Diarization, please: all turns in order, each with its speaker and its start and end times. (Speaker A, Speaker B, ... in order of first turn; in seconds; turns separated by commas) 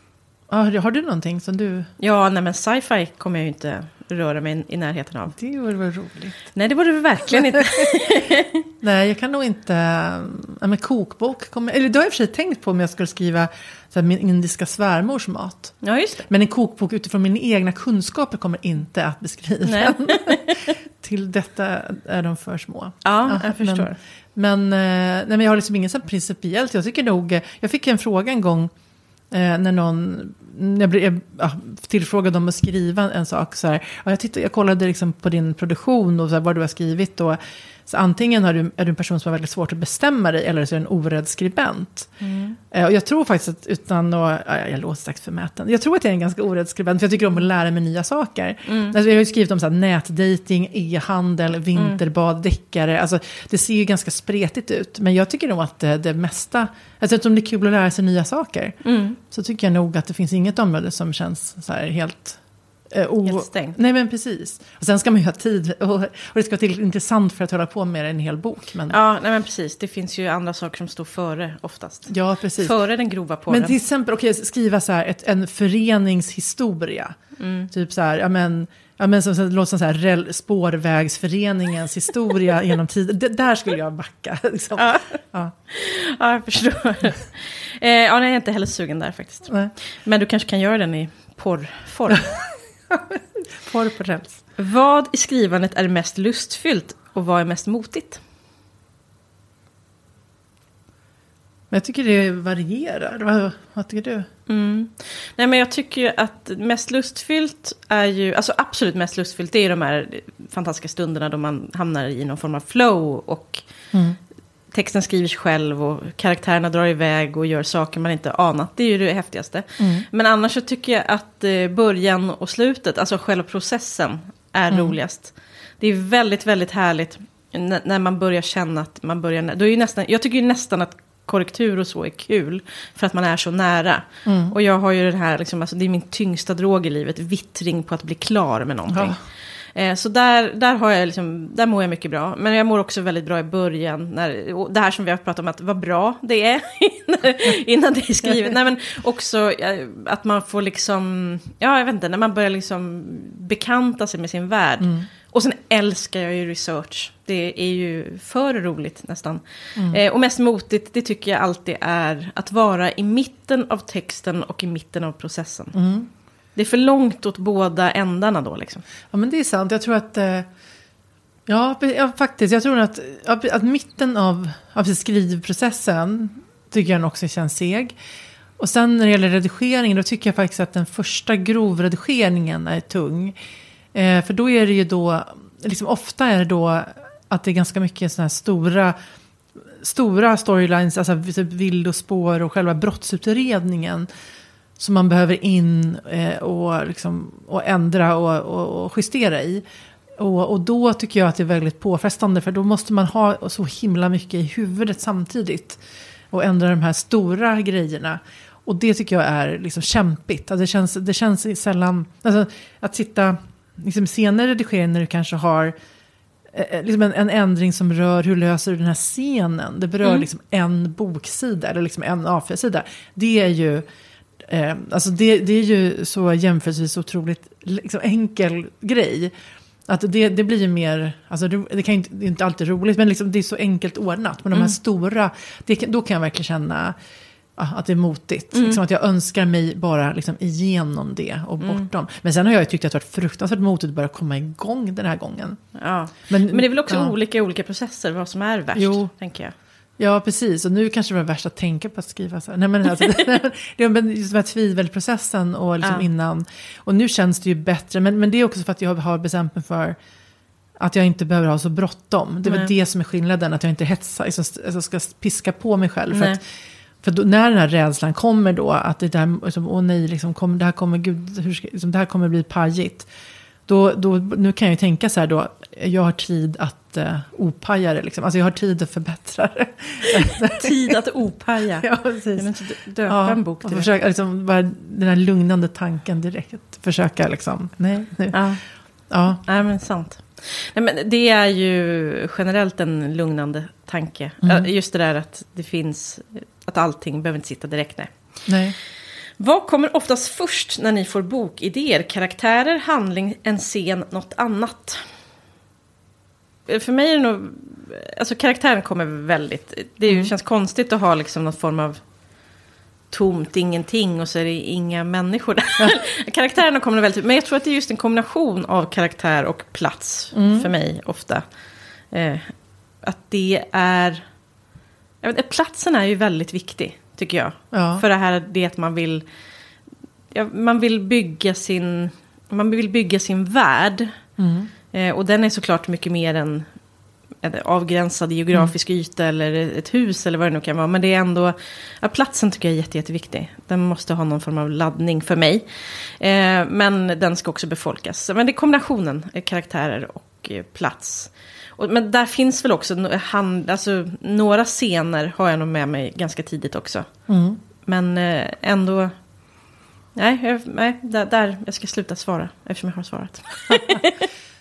Speaker A: 0.5-1.9, Speaker B: 2.0-5.3, Speaker A: 5.3-6.4, Speaker B: 6.5-8.7, Speaker A: 7.3-7.6, Speaker A: 8.8-28.7, Speaker B: 15.8-16.3, Speaker B: 19.6-20.8, Speaker B: 23.0-24.0, Speaker A: 29.3-42.1, Speaker B: 42.2-42.6, Speaker A: 42.7-62.4, Speaker B: 48.6-49.0, Speaker B: 51.7-52.0, Speaker B: 58.8-59.2, Speaker A: 62.9-69.0, Speaker B: 63.2-63.8, Speaker B: 68.9-73.8, Speaker A: 72.1-72.8, Speaker A: 73.5-77.2, Speaker B: 77.4-77.7, Speaker A: 77.7-85.5, Speaker B: 84.8-85.2, Speaker B: 85.7-92.3, Speaker A: 92.1-94.4, Speaker B: 94.6-98.2, Speaker A: 101.7-104.3, Speaker B: 104.5-113.7, Speaker A: 113.9-114.2, Speaker B: 114.7-139.2, Speaker A: 119.8-120.0, Speaker A: 124.7-125.0, Speaker A: 134.2-134.5, Speaker A: 138.9-139.1, Speaker B: 139.7-165.8, Speaker A: 148.3-148.5, Speaker A: 154.8-155.1, Speaker A: 165.7-166.1, Speaker B: 166.5-168.8, Speaker A: 169.1-170.5, Speaker A: 171.5-177.9, Speaker A: 178.6-183.3, Speaker A: 183.9-188.9, Speaker A: 189.8-194.1, Speaker A: 194.8-199.6, Speaker A: 200.2-205.8, Speaker A: 206.3-215.7, Speaker A: 216.5-223.8, Speaker A: 224.4-229.3, Speaker A: 229.9-236.9, Speaker A: 237.6-245.6, Speaker B: 238.5-238.8, Speaker B: 245.7-249.5, Speaker A: 246.3-247.1, Speaker A: 248.7-249.1, Speaker A: 250.0-259.9, Speaker A: 260.8-266.4, Speaker B: 262.4-262.7, Speaker B: 266.1-266.4, Speaker A: 267.0-273.1, Speaker A: 273.7-281.0, Speaker B: 280.1-283.9, Speaker A: 281.8-282.5, Speaker A: 283.1-288.4, Speaker B: 288.3-288.6, Speaker A: 289.1-289.4, Speaker B: 289.4-298.2, Speaker A: 294.4-294.7, Speaker A: 298.5-298.8, Speaker B: 299.4-305.0, Speaker B: 306.7-312.0, Speaker B: 313.1-321.4, Speaker A: 320.3-320.7, Speaker B: 322.1-324.2, Speaker B: 325.2-329.2, Speaker A: 327.7-328.0, Speaker B: 330.3-334.1, Speaker A: 334.4-334.7, Speaker B: 334.9-336.7, Speaker B: 337.4-357.1, Speaker A: 357.3-357.6, Speaker B: 357.8-359.1, Speaker B: 360.1-364.3, Speaker A: 363.7-364.0